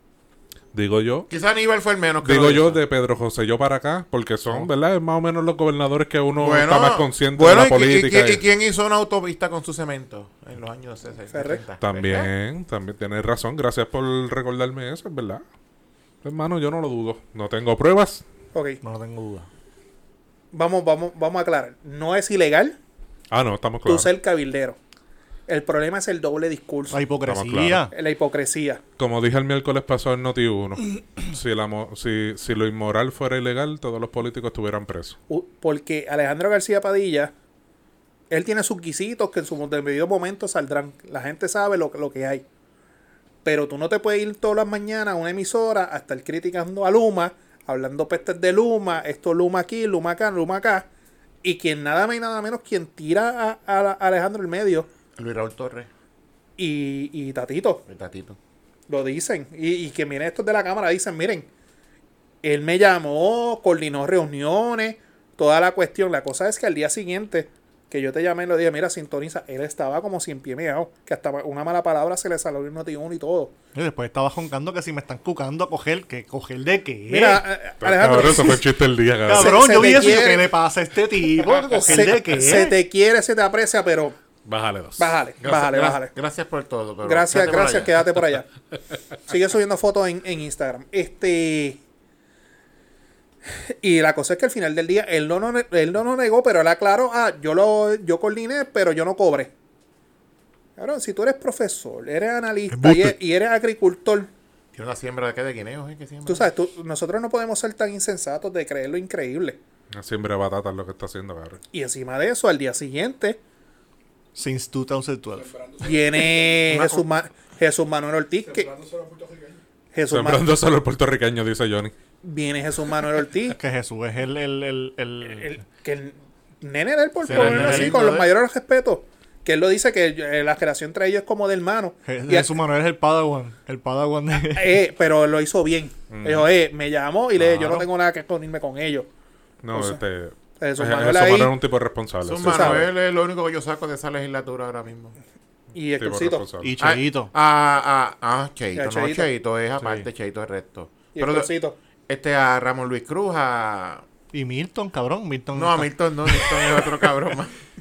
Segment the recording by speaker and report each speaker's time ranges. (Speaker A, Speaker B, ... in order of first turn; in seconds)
Speaker A: 0.7-1.3, 2.2-8.4, 11.8-15.4, 16.2-18.2, 23.3-24.1, 27.2-27.9, 29.0-35.2, 77.8-80.0, 84.4-85.1, 109.9-111.6, 120.1-121.9, 136.1-136.5, 139.6-142.9, 146.0-146.7
Speaker B: 1.3-2.8, 6.4-12.3, 55.1-55.9, 57.9-58.4, 85.4-88.0, 104.7-106.5, 116.7-117.0, 127.2-128.3, 142.2-145.2, 146.8-151.5, 152.1-154.0, 155.5-157.5
Speaker C: 11.3-11.6, 18.5-18.8, 20.5-22.8, 23.9-24.8, 25.5-27.0, 27.9-28.8, 35.3-37.3, 38.3-42.4, 43.4-50.9, 51.4-54.9, 56.6-57.8, 58.9-61.5, 62.4-73.5, 77.1-78.6, 79.3-80.5, 81.4-84.2, 85.0-86.1, 87.0-88.5, 89.3-91.8, 93.5-99.5, 100.8-104.3, 106.2-109.6, 111.7-113.4, 115.8-118.7, 119.9-120.4, 122.2-123.6, 125.2-132.5, 134.4-139.1, 139.7-140.0, 140.6-141.5, 142.4-142.8, 145.7-146.5, 148.7-149.3, 151.1-151.8
Speaker D: 18.8-19.5, 26.9-27.9, 73.7-77.4, 79.2-82.8, 102.7-103.1, 114.3-115.5, 123.6-125.5, 127.2-127.9, 132.1-134.8, 137.4-137.9, 146.6-147.3, 154.3-156.8
Speaker E: 115.3-116.8, 118.4-119.6